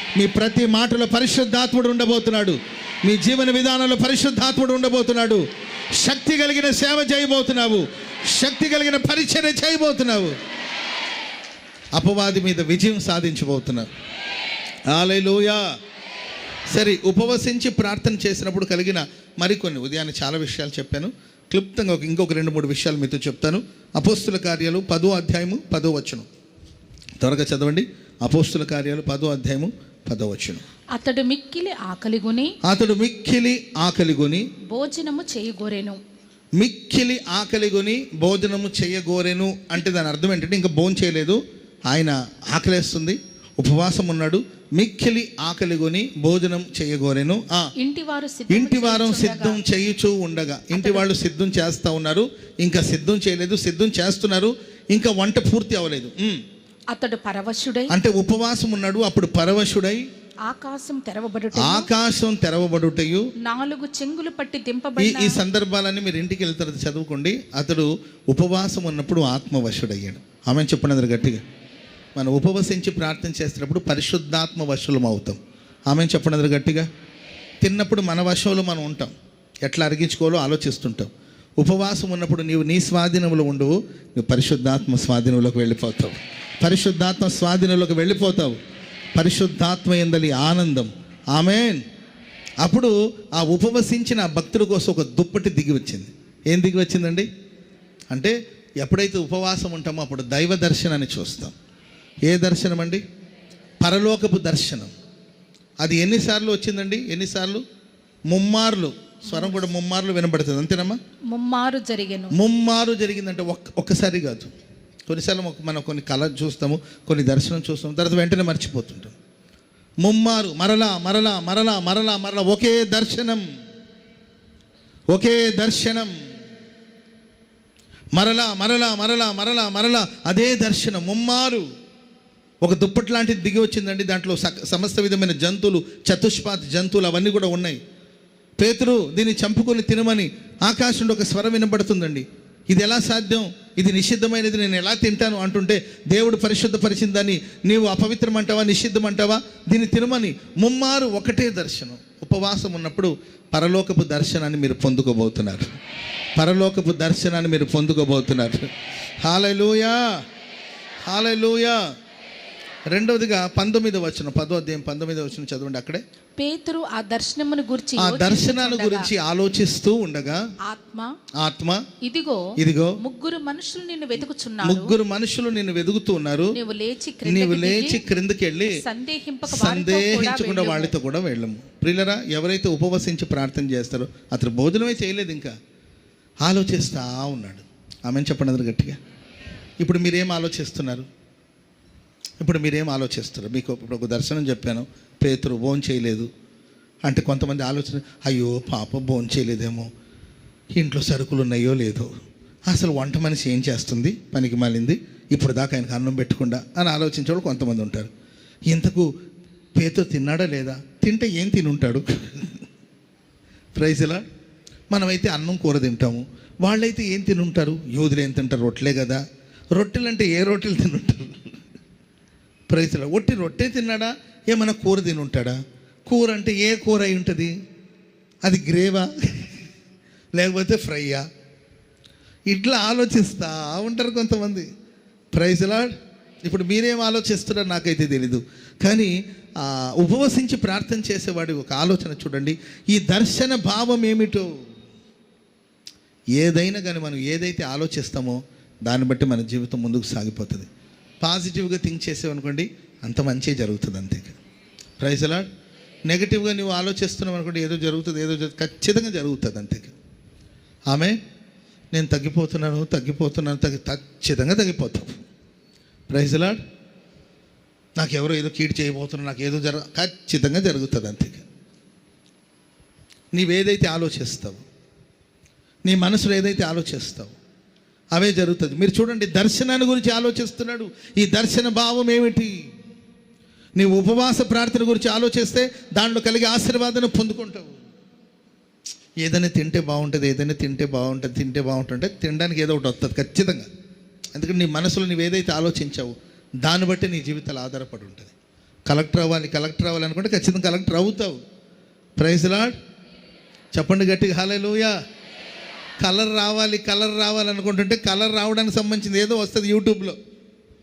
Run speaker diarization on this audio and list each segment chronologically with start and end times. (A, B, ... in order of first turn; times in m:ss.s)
0:00.2-0:10.3 A
0:11.9-0:13.9 A
0:14.9-0:15.6 A
0:16.7-0:26.2 A
0:27.2-0:30.6 A
0:30.9-0:32.6 B
0:32.6-0:34.5 A
0:34.7-0:36.0 B
0:36.6-0:47.7 A
0:47.8-0:49.6 B
0:48.5-0:56.4 A
0:50.7-0:51.0 B
0:56.9-0:57.9 B
0:57.9-1:00.0 A
1:00.4-1:01.9 B
1:01.5-1:03.3 A
1:03.4-1:05.4 B
1:05.0-1:11.4 A
1:12.2-1:15.4 A
1:15.9-1:16.9 A
1:17.6-1:28.6 A
1:29.1-1:31.8 A
1:32.6-1:37.3 A
1:38.1-1:41.5 A
1:42.3-1:43.0 A
1:43.8-1:44.9 A
1:45.8-1:47.6 A
1:48.3-1:51.0 A
1:49.3-1:49.6 B
1:51.3-1:52.3 B
1:52.3-1:54.5 A
1:55.1-1:59.1 A
2:00.0-2:03.4 A
2:05.1-2:06.1 A
2:08.1-2:11.6 A
2:12.6-2:17.8 A
2:18.6-2:35.7 A
2:36.4-2:38.7 A
2:39.2-2:40.2 A
2:41.0-2:41.8 A
2:42.9-2:46.0 A
2:46.4-2:49.1 B
2:48.0-2:50.4 A
2:50.6-2:51.1 B
2:51.4-2:51.9 A
2:52.0-2:54.9 B
2:52.6-2:53.0 A
2:54.6-2:56.6 A
2:56.5-2:58.0 B
2:57.2-2:58.8 A
2:58.7-3:00.9 B
2:59.4-3:05.5 A
3:06.4-3:09.0 A
3:09.8-3:11.1 A
3:12.4-3:16.3 A
3:17.0-3:19.9 A
3:20.7-3:22.1 A
3:22.7-3:28.1 A
3:28.7-3:29.1 A
3:29.8-3:32.6 A
3:33.8-3:34.2 A
3:34.9-3:39.2 A
3:39.7-3:41.5 A
3:42.7-3:47.5 A
3:48.4-3:49.5 A
3:50.4-3:51.2 A
3:52.5-3:54.6 A
3:55.3-3:55.9 A
3:56.4-4:04.6 A
4:06.3-4:10.7 A
4:11.2-4:14.4 A
4:15.0-4:15.5 A
4:16.1-4:19.9 A
4:20.9-4:21.2 A
4:21.9-4:25.2 A
4:26.1-4:26.6 A
4:28.0-4:31.4 A
4:33.3-4:34.6 A
4:35.8-4:37.3 A
4:38.1-4:42.5 A
4:43.8-4:47.8 A
4:49.2-4:53.7 A
4:54.3-4:58.3 A
4:58.9-5:01.4 A
5:02.2-5:02.7 A
5:03.7-5:04.9 A
5:06.0-5:10.2 A